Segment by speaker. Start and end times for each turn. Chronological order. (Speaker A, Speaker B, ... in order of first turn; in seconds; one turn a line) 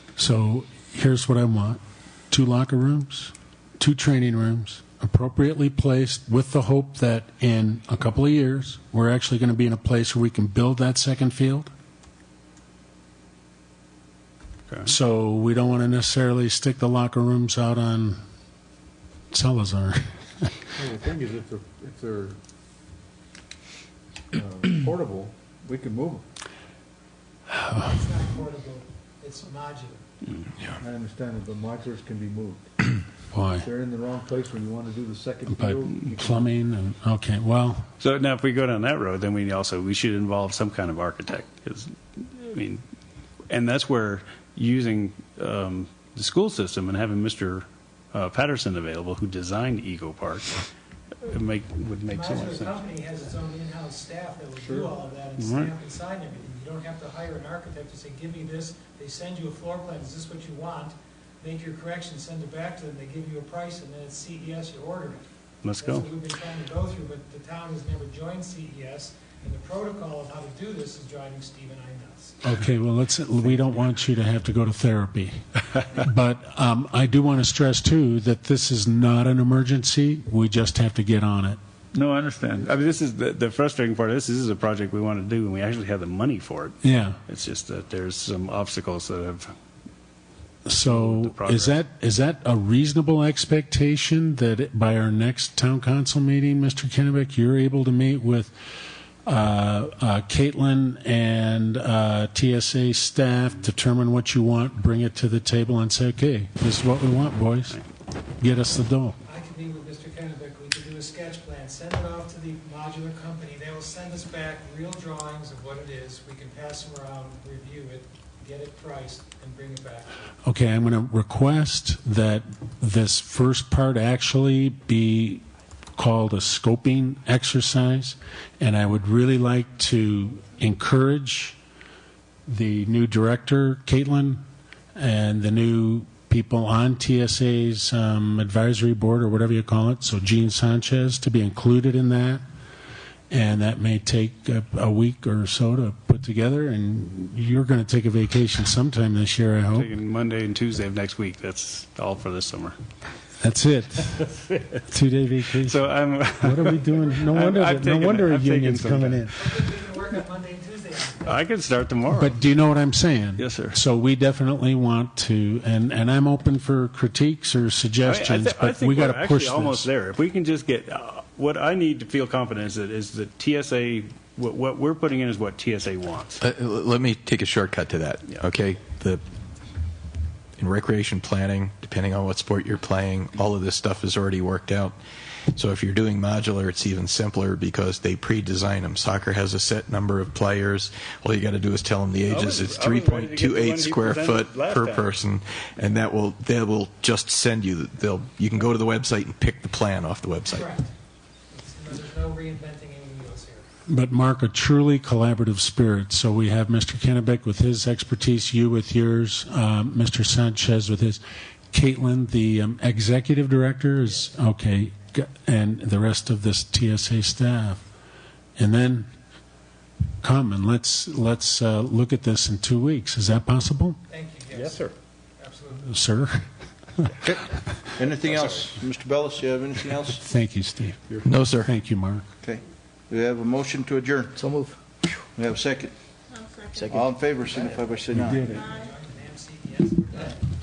Speaker A: 0.2-1.8
Speaker A: 2.3-11.7
Speaker A: 14.8-18.2
Speaker A: 19.3-20.6
Speaker B: 20.7-22.4
Speaker B: 24.3-26.2
Speaker A: 27.5-27.9
Speaker C: 27.8-30.0
Speaker B: 30.8-32.7
Speaker A: 33.3-33.7
Speaker B: 33.6-36.5
Speaker A: 35.5-37.8
Speaker D: 38.0-42.8
Speaker D: 43.5-50.6
Speaker D: 51.2-52.9
Speaker C: 52.1-65.2
Speaker B: 54.6-54.9
Speaker D: 55.4-55.7
Speaker D: 65.6-66.1
Speaker C: 65.8-72.4
Speaker A: 72.4-75.4
Speaker A: 76.0-81.6
Speaker B: 81.9-82.6
Speaker D: 82.5-89.5
Speaker A: 86.8-87.2
Speaker A: 90.7-98.5
Speaker D: 90.8-91.8
Speaker A: 99.2-107.8
Speaker A: 108.4-109.2
Speaker C: 109.2-120.2
Speaker A: 120.4-125.4
Speaker A: 126.0-131.6
Speaker A: 132.4-134.4
Speaker A: 134.9-142.4
Speaker A: 143.3-149.9
Speaker D: 149.7-152.8
Speaker A: 153.4-154.3
Speaker A: 154.9-155.8
Speaker D: 155.5-159.3
Speaker A: 156.4-159.4
Speaker C: 159.3-161.4
Speaker D: 161.2-162.3
Speaker A: 162.1-169.9
Speaker D: 163.4-163.8
Speaker D: 168.0-176.4
Speaker E: 176.4-179.2
Speaker E: 180.6-185.0
Speaker E: 185.5-200.7
Speaker D: 192.2-195.2
Speaker C: 200.4-200.9
Speaker C: 201.5-203.7
Speaker A: 203.9-211.2
Speaker A: 211.7-217.8
Speaker A: 218.6-219.1
Speaker A: 220.2-224.0
Speaker C: 224.1-225.9
Speaker A: 225.8-226.4
Speaker F: 227.9-230.2
Speaker A: 230.2-232.3
Speaker E: 231.2-231.7
Speaker F: 232.4-234.5
Speaker F: 235.3-235.9
Speaker F: 236.9-238.5
Speaker B: 238.2-238.7
Speaker A: 238.2-238.7
Speaker C: 238.7-240.4